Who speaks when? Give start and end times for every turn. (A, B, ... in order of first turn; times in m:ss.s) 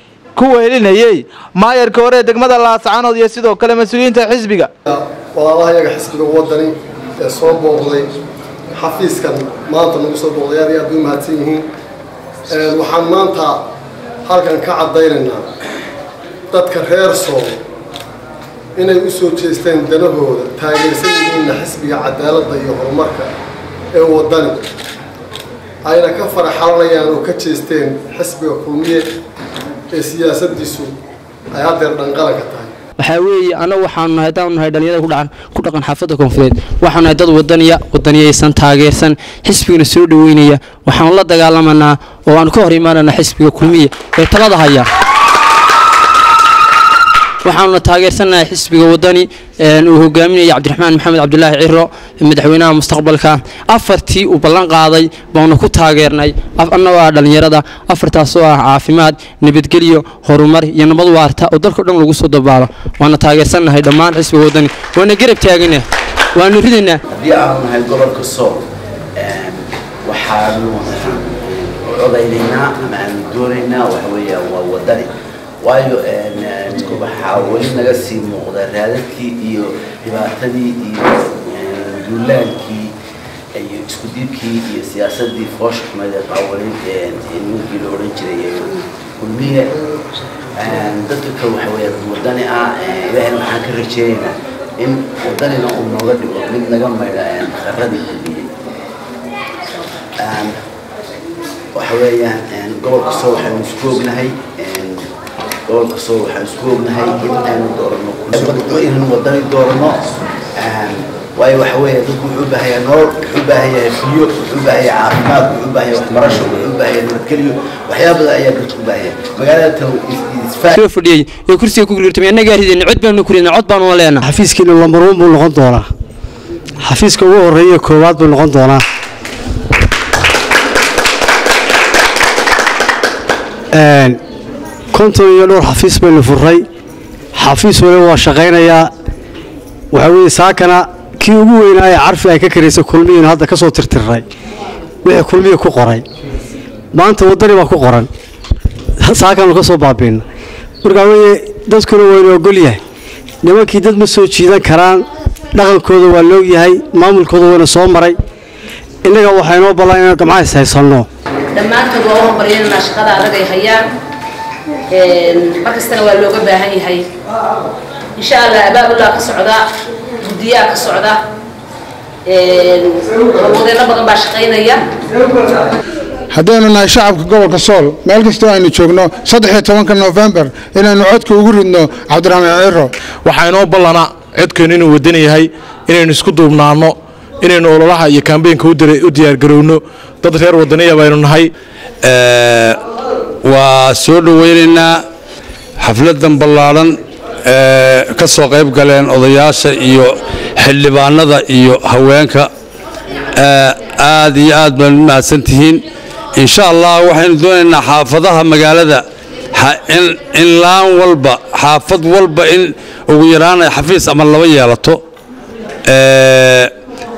0:00.4-0:04.7 A
0:04.9-0:08.1 B
0:08.8-0:11.7 B
0:12.5-0:13.6 B
0:14.2-0:15.4 B
0:16.5-0:17.6 B
0:18.8-0:23.3 B
0:23.9-0:24.6 B
0:25.8-0:29.0 B
0:29.9-0:30.9 B
0:31.5-0:32.7 B
0:33.0-0:44.9 C
0:47.4-1:07.0 C
1:07.1-1:08.6 D
1:09.2-1:15.1 D
1:15.6-1:22.9 D
1:23.6-1:29.7 D
1:30.6-1:38.4 D
1:40.2-1:40.6 D
1:41.7-1:45.1 D
1:45.7-2:00.8 D
2:00.7-2:04.2 C
2:04.2-2:05.9 E
2:06.8-2:08.8 E
2:13.7-2:14.2 E
2:14.9-2:16.6 E
2:17.3-2:18.9 E
2:19.9-2:24.2 E
2:25.0-2:26.0 E
2:26.9-2:28.1 E
2:29.0-2:30.2 E
2:30.8-2:32.8 E
2:33.4-2:38.2 E
2:39.0-2:41.1 E
2:41.5-2:43.9 F
2:44.9-2:47.1 F
2:48.2-2:49.7 F
2:50.2-2:51.2 F
2:52.2-2:54.9 F
2:56.3-3:02.9 G
3:03.2-3:11.5 H
3:12.0-3:12.8 I
3:13.4-3:15.0 I
3:15.8-3:22.5 I
3:23.3-3:25.8 I
3:26.4-3:35.0 I
3:35.9-3:36.7 I